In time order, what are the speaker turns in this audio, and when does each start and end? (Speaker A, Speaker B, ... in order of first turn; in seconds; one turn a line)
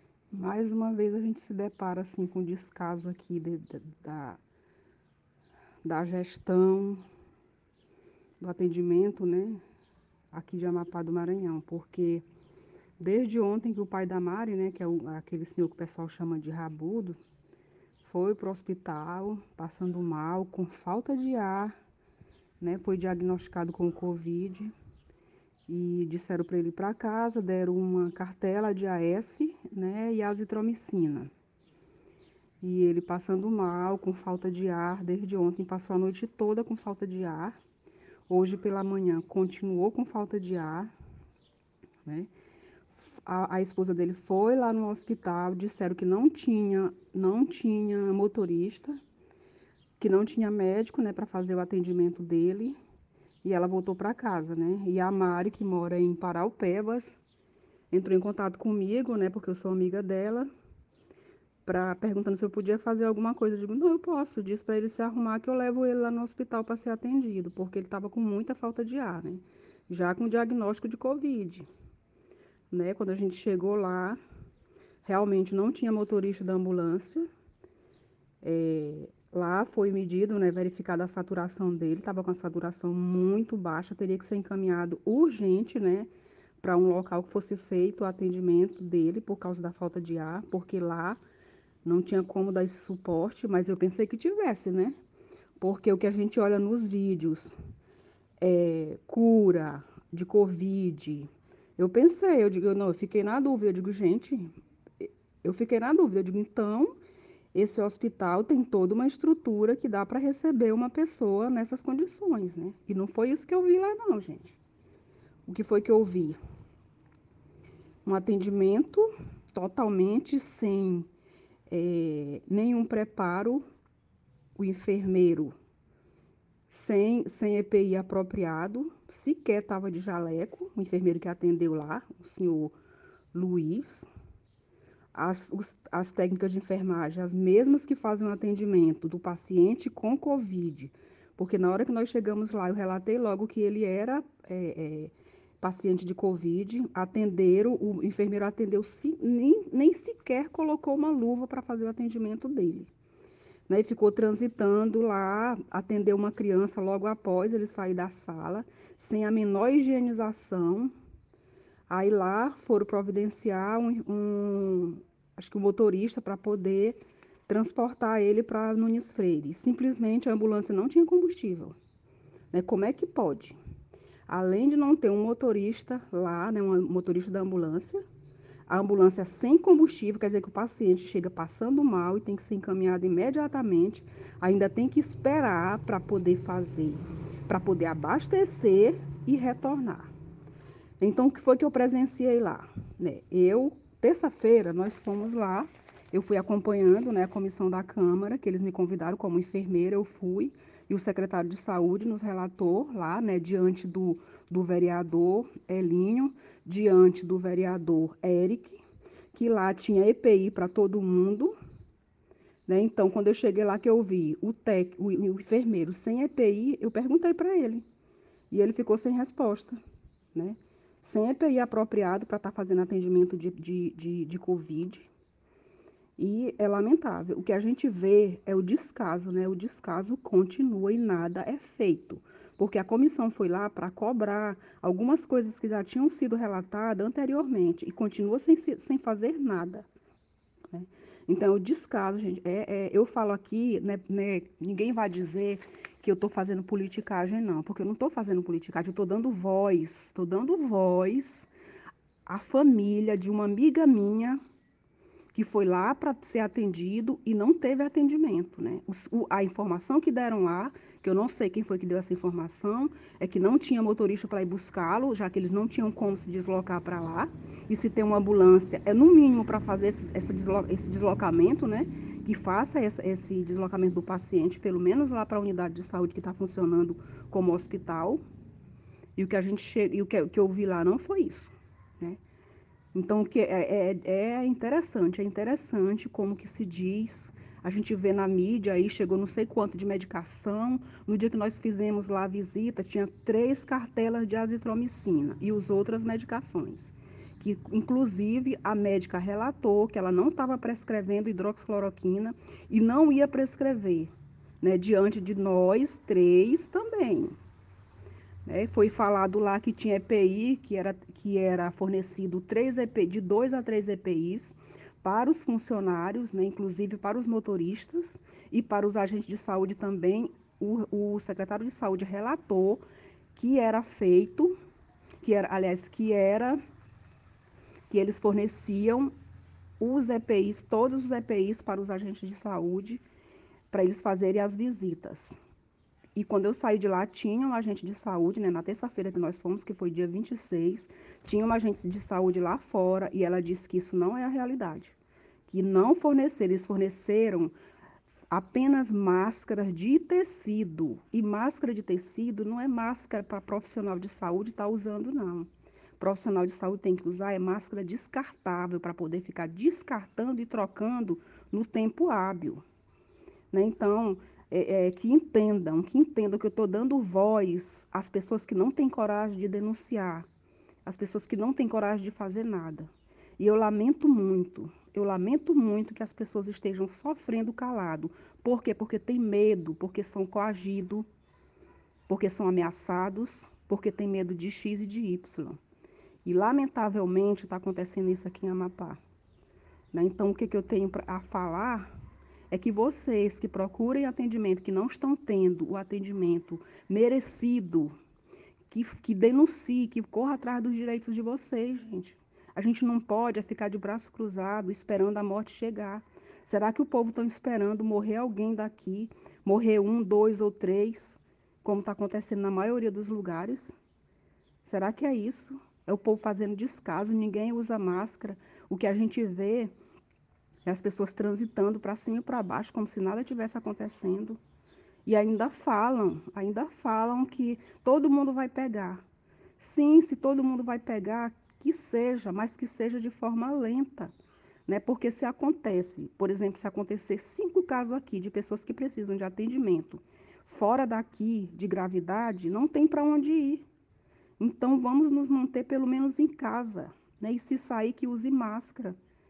Speaker A: 0.3-4.4
Speaker A: 5.8-7.0
Speaker A: 8.4-9.6
Speaker A: 10.3-12.2
Speaker A: 13.0-17.2
Speaker A: 18.1-21.7
Speaker A: 22.6-24.7
Speaker A: 25.7-31.3
Speaker A: 32.6-37.6
Speaker A: 38.3-40.9
Speaker A: 42.0-42.3
Speaker A: 43.2-49.0
Speaker A: 50.0-52.8
Speaker A: 53.4-57.2
Speaker A: 57.9-60.5
Speaker A: 61.6-71.7
Speaker A: 72.7-74.2
Speaker A: 75.0-77.3
Speaker A: 78.4-86.1
Speaker A: 86.6-91.2
Speaker A: 91.8-95.0
Speaker A: 95.6-97.5
Speaker A: 98.4-107.0
Speaker A: 107.5-114.6
Speaker A: 115.5-116.4
Speaker A: 118.0-121.1
Speaker A: 121.7-123.6
Speaker A: 124.6-125.5
Speaker A: 126.7-132.7
Speaker A: 133.3-134.1
Speaker A: 135.1-152.9
Speaker A: 153.7-160.9
Speaker A: 161.9-167.0
Speaker A: 167.5-171.8
Speaker A: 172.5-173.6
Speaker A: 174.3-178.0
Speaker A: 178.7-190.1
Speaker A: 191.0-208.8
Speaker A: 209.3-211.5
Speaker A: 212.7-217.8
Speaker A: 218.5-219.8
Speaker A: 220.3-225.1
Speaker A: 226.2-239.9
Speaker A: 240.7-251.5
Speaker A: 252.3-254.4
Speaker A: 255.3-278.2
Speaker A: 279.2-282.2
Speaker A: 282.9-307.4
Speaker A: 308.5-322.8
Speaker A: 323.4-324.5
Speaker A: 325.2-326.6
Speaker A: 327.9-329.1
Speaker A: 329.8-333.0
Speaker A: 333.7-335.4
Speaker A: 336.2-344.9
Speaker A: 345.5-347.6
Speaker A: 348.3-355.5
Speaker A: 356.0-362.6
Speaker A: 363.5-370.3
Speaker A: 370.9-381.1
Speaker A: 382.1-385.6
Speaker A: 386.2-389.0
Speaker A: 389.9-391.9
Speaker A: 392.5-397.9
Speaker A: 398.7-413.8
Speaker A: 414.6-419.7
Speaker A: 420.6-424.4
Speaker A: 425.1-429.0
Speaker A: 429.6-434.1
Speaker A: 434.7-443.6
Speaker A: 444.4-449.0